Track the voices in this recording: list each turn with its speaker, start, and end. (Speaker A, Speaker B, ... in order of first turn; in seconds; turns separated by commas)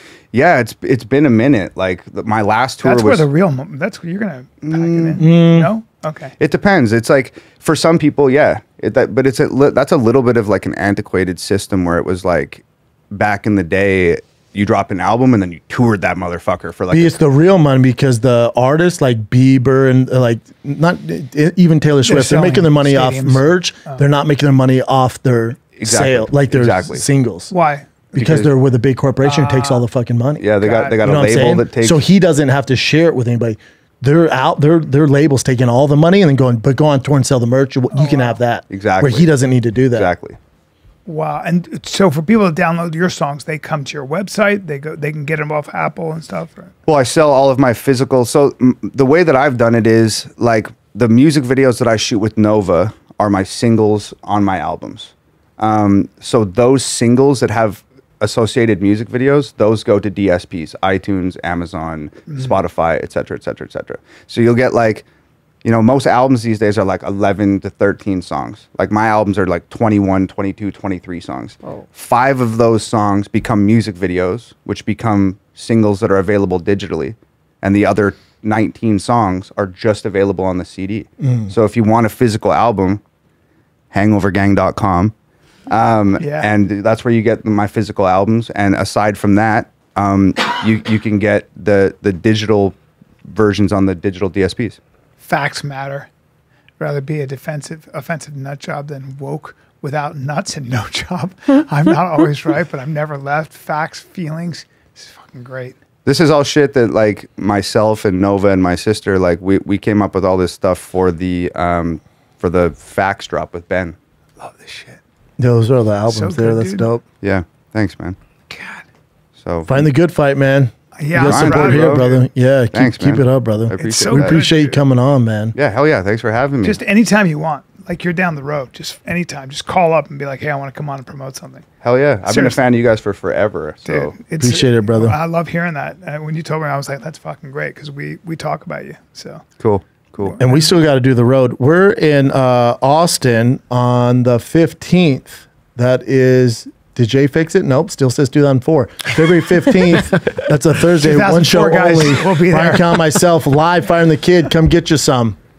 Speaker A: 0.3-3.3, Speaker B: 2.8-6.3, Speaker A: 4.7-5.2, Speaker C: 5.2-5.7, Speaker A: 6.4-17.2, Speaker C: 16.9-27.5, Speaker B: 22.0-24.0, Speaker A: 25.8-27.1, Speaker B: 27.5-27.9, Speaker C: 28.1-40.1, Speaker A: 28.1-28.5, Speaker B: 29.2-29.9, Speaker A: 30.4-32.0, Speaker B: 30.6-30.9, Speaker B: 37.9-38.4, Speaker A: 38.7-39.3, Speaker A: 39.9-40.4, Speaker B: 41.0-46.7, Speaker A: 46.9-65.0, Speaker A: 65.6-83.0, Speaker C: 81.2-81.5, Speaker A: 83.9-85.1, Speaker A: 85.7-94.8, Speaker B: 86.2-86.5, Speaker B: 95.2-96.1, Speaker B: 96.8-105.8, Speaker A: 106.0-114.0, Speaker B: 114.4-115.0, Speaker C: 115.4-117.0, Speaker B: 116.1-116.9, Speaker A: 117.2-118.2, Speaker B: 118.5-118.8, Speaker A: 119.4-119.8, Speaker C: 119.7-125.5, Speaker B: 121.0-122.2, Speaker A: 121.2-122.1, Speaker A: 122.7-124.4, Speaker B: 123.8-124.8, Speaker A: 125.5-126.8, Speaker B: 126.6-131.6, Speaker A: 131.8-134.2, Speaker B: 132.2-132.6, Speaker B: 133.8-139.4, Speaker C: 134.4-135.2, Speaker A: 139.6-140.4, Speaker B: 140.2-140.7, Speaker C: 140.4-155.4, Speaker B: 150.9-153.2